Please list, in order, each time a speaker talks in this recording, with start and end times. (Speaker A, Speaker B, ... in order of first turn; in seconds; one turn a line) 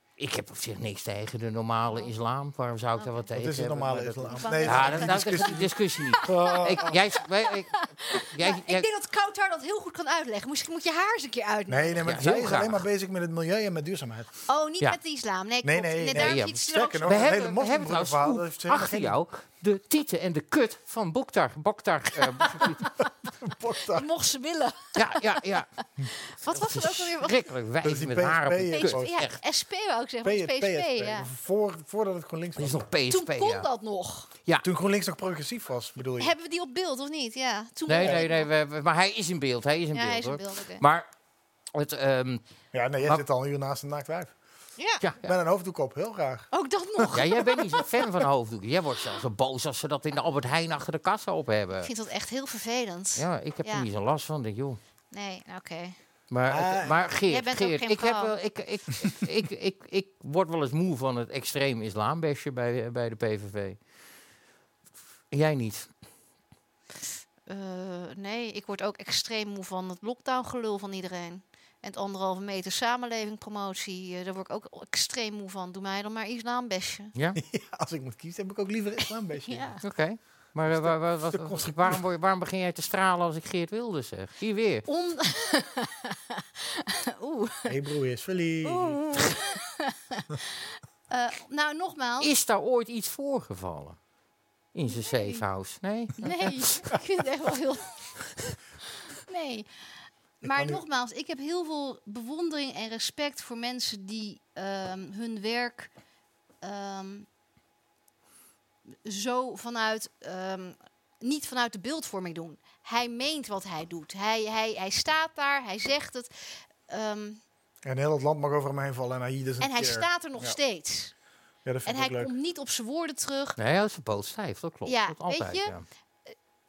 Speaker A: 0.2-8.9
Speaker B: 3.3-7.0
Speaker C: 4.3-12.1
Speaker B: 11.7-14.3
Speaker A: 12.0-12.8
Speaker C: 14.5-17.6
Speaker B: 15.6-19.2
Speaker A: 16.1-22.9
Speaker C: 22.4-23.1
Speaker B: 23.4-24.1
Speaker C: 23.9-27.5
Speaker A: 24.9-25.7
Speaker A: 26.5-29.4
Speaker B: 27.8-29.1
Speaker C: 28.7-31.3
Speaker B: 30.2-32.8
Speaker A: 32.6-33.7
Speaker C: 33.1-34.3
Speaker B: 34.6-36.3
Speaker C: 36.2-38.5
Speaker A: 37.9-41.1
Speaker B: 38.0-38.2
Speaker C: 39.9-40.8
Speaker A: 41.7-42.4
Speaker B: 42.7-44.3
Speaker C: 44.8-45.0
Speaker A: 45.0-45.3
Speaker B: 45.2-47.1
Speaker C: 46.5-47.9
Speaker A: 47.1-51.9
Speaker C: 51.8-53.9
Speaker A: 53.1-54.8
Speaker C: 55.1-56.0
Speaker A: 56.3-63.8
Speaker B: 56.5-57.0
Speaker C: 57.3-58.3
Speaker A: 65.3-65.9
Speaker C: 67.5-77.1
Speaker A: 77.1-77.4
Speaker B: 77.3-79.7
Speaker C: 79.5-79.8
Speaker A: 79.8-84.9
Speaker B: 80.7-82.0
Speaker C: 84.9-87.7
Speaker B: 87.7-89.0
Speaker C: 88.6-92.3
Speaker A: 92.2-94.0
Speaker A: 94.7-96.7
Speaker C: 94.9-95.4
Speaker C: 96.2-98.5
Speaker C: 99.1-99.7
Speaker B: 100.4-100.8
Speaker C: 100.4-105.9
Speaker C: 106.6-107.3
Speaker C: 109.0-116.3
Speaker C: 116.9-117.4
Speaker B: 117.8-120.6
Speaker C: 119.6-121.1
Speaker B: 121.6-122.3
Speaker C: 121.8-123.6
Speaker A: 123.6-125.8
Speaker C: 124.8-125.7